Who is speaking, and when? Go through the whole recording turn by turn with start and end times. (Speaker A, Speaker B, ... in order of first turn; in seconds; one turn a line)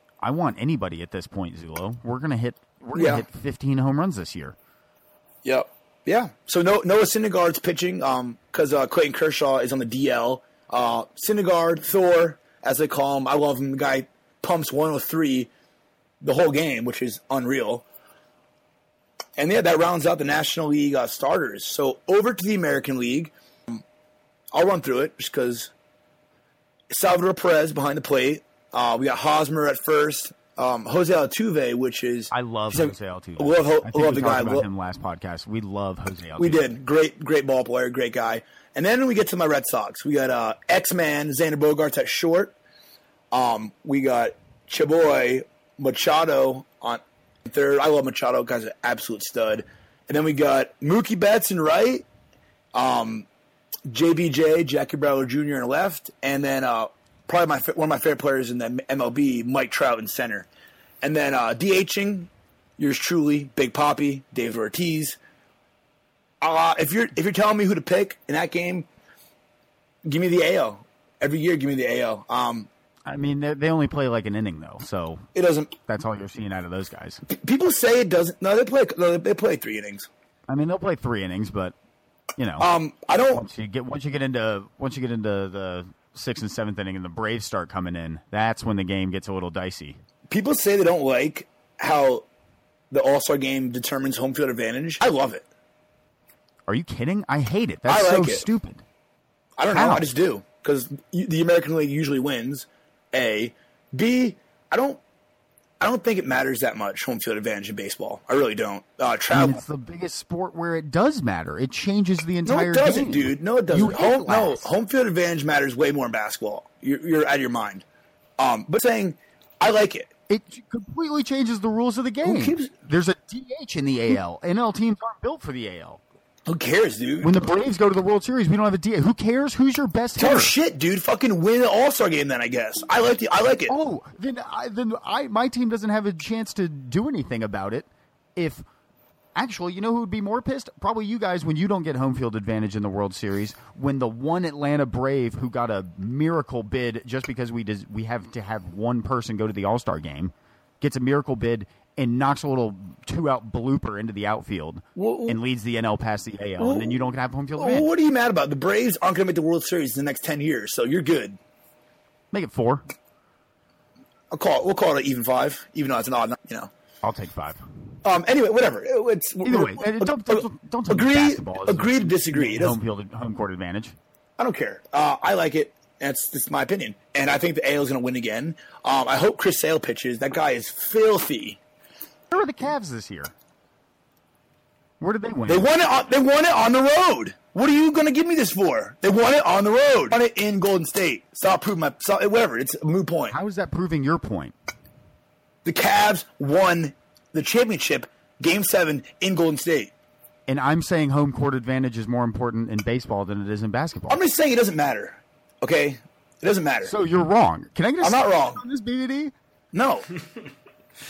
Speaker A: 0.2-4.5
Speaker B: 2.9-3.2
Speaker B: 5.4-15.5
Speaker B: 16.2-17.8
Speaker B: 19.4-23.8
Speaker B: 24.5-25.7
Speaker B: 26.9-34.6
Speaker A: 32.3-36.7
Speaker B: 36.4-42.5
Speaker B: 43.3-52.0
Speaker B: 52.7-53.3
Speaker B: 53.9-60.5
Speaker B: 61.0-65.2
Speaker B: 66.4-68.9
Speaker B: 70.0-72.7
Speaker A: 73.0-75.3
Speaker B: 75.3-75.7
Speaker A: 75.9-77.2
Speaker B: 77.2-80.1
Speaker A: 80.5-81.7
Speaker A: 82.4-82.7
Speaker B: 82.6-83.4
Speaker A: 83.3-90.0
Speaker B: 90.3-92.2
Speaker B: 92.9-95.4
Speaker A: 96.7-98.8
Speaker B: 97.9-98.4
Speaker B: 99.6-105.0
Speaker A: 99.7-100.1
Speaker B: 105.8-109.6
Speaker A: 109.3-114.7
Speaker B: 112.5-117.8
Speaker B: 118.4-120.1
Speaker A: 120.3-126.0
Speaker B: 122.2-122.7
Speaker B: 126.5-127.3
Speaker A: 127.2-130.5
Speaker B: 130.2-133.7
Speaker A: 133.7-138.6
Speaker A: 139.3-157.9
Speaker B: 154.9-155.4
Speaker B: 156.6-157.0
Speaker B: 157.6-161.4
Speaker A: 162.3-162.8
Speaker B: 164.3-166.7
Speaker A: 167.0-167.6
Speaker B: 168.0-172.8
Speaker A: 169.4-173.9
Speaker B: 174.4-181.6
Speaker A: 182.3-183.3
Speaker A: 185.0-185.7
Speaker B: 185.5-193.3
Speaker A: 193.3-194.5
Speaker B: 195.6-199.9
Speaker A: 200.5-204.2
Speaker B: 204.1-206.9
Speaker A: 206.8-209.3
Speaker B: 208.0-208.6
Speaker B: 209.7-210.1